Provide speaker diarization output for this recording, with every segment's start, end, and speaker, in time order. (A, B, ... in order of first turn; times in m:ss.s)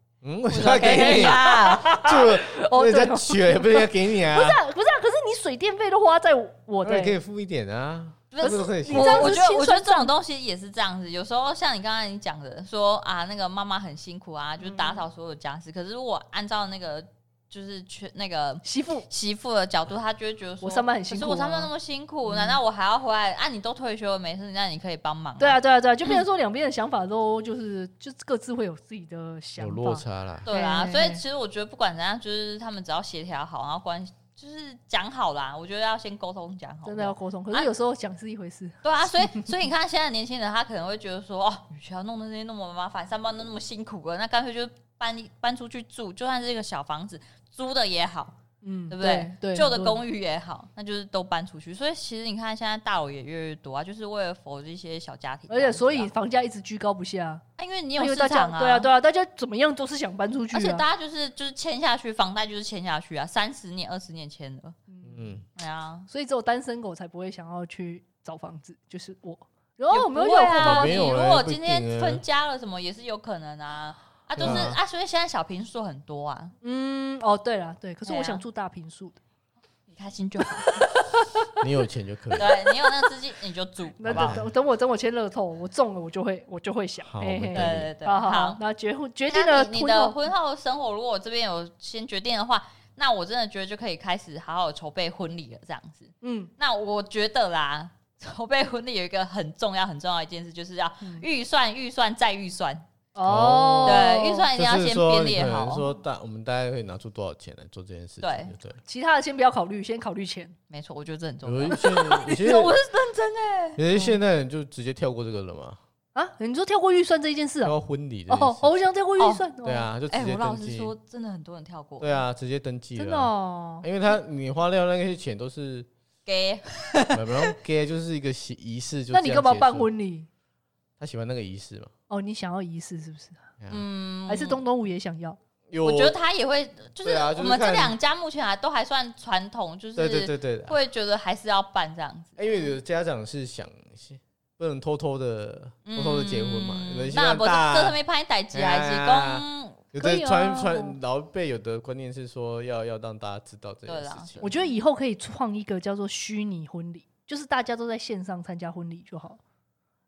0:00.2-0:04.6 A
0:00.5-0:02.0 B
0:00.6-0:07.2 C
0:06.8-0:09.4 A
0:08.3-0:26.2 B
0:08.4-0:10.1 C
0:14.6-0:15.0 C
0:18.6-0:19.1 C
0:20.6-0:21.7 C
0:22.2-0:22.6 C
0:25.4-0:31.2 C
0:29.6-0:30.5 A
0:30.4-0:37.7 B
0:36.8-0:39.5 C
0:38.8-0:48.4 B
0:48.6-0:50.0 C
0:48.9-0:56.1 B
0:55.5-0:57.4 C
0:57.6-0:58.9 B
0:58.0-1:00.8 C
1:00.5-1:04.8 B
1:04.9-1:05.3 C
1:05.0-1:05.4 A
1:05.6-1:06.1 B
1:06.1-1:11.1 C
1:09.9-1:16.5 B
1:10.6-1:12.2 A
1:14.4-1:14.8 A
1:14.4-1:14.7 C
1:16.6-1:19.2 C
1:18.0-1:18.4 B
1:19.9-1:21.0 B
1:21.6-1:22.5 A
1:22.4-1:24.4 B
1:24.0-1:30.2 C
1:24.1-1:24.5 A
1:27.0-1:27.9 A
1:27.5-1:28.6 B
1:29.3-1:42.8 B
1:36.2-1:36.5 C
1:43.1-1:44.5 C
1:43.2-1:48.8 A
1:43.8-1:45.9 B
1:48.2-1:48.5 B
1:48.8-1:50.6 C
1:50.7-1:53.8 B
1:51.4-1:52.8 A
1:51.7-1:52.7 C
1:53.8-1:55.8 A
1:53.9-1:54.2 C
1:56.1-1:57.8 C
1:57.6-1:58.8 A
1:58.3-1:59.9 C
1:59.2-1:59.4 B
1:59.6-2:00.9 A
2:00.1-2:02.2 B
2:02.0-2:03.3 A
2:03.0-2:03.8 C
2:03.8-2:05.9 A
2:06.2-2:07.5 B
2:07.1-2:09.9 A
2:09.1-2:10.3 C
2:11.0-2:11.9 A
2:12.1-2:13.4 C
2:13.7-2:14.6 B
2:14.3-2:15.4 C
2:15.7-2:16.1 A
2:15.8-2:22.6 B
2:17.0-2:17.9 A
2:20.0-2:20.8 A
2:22.4-2:28.0 A
2:25.8-2:29.8 B
2:28.5-2:34.4 A
2:30.0-2:31.0 C
2:33.8-2:34.7 B
2:34.4-2:39.4 C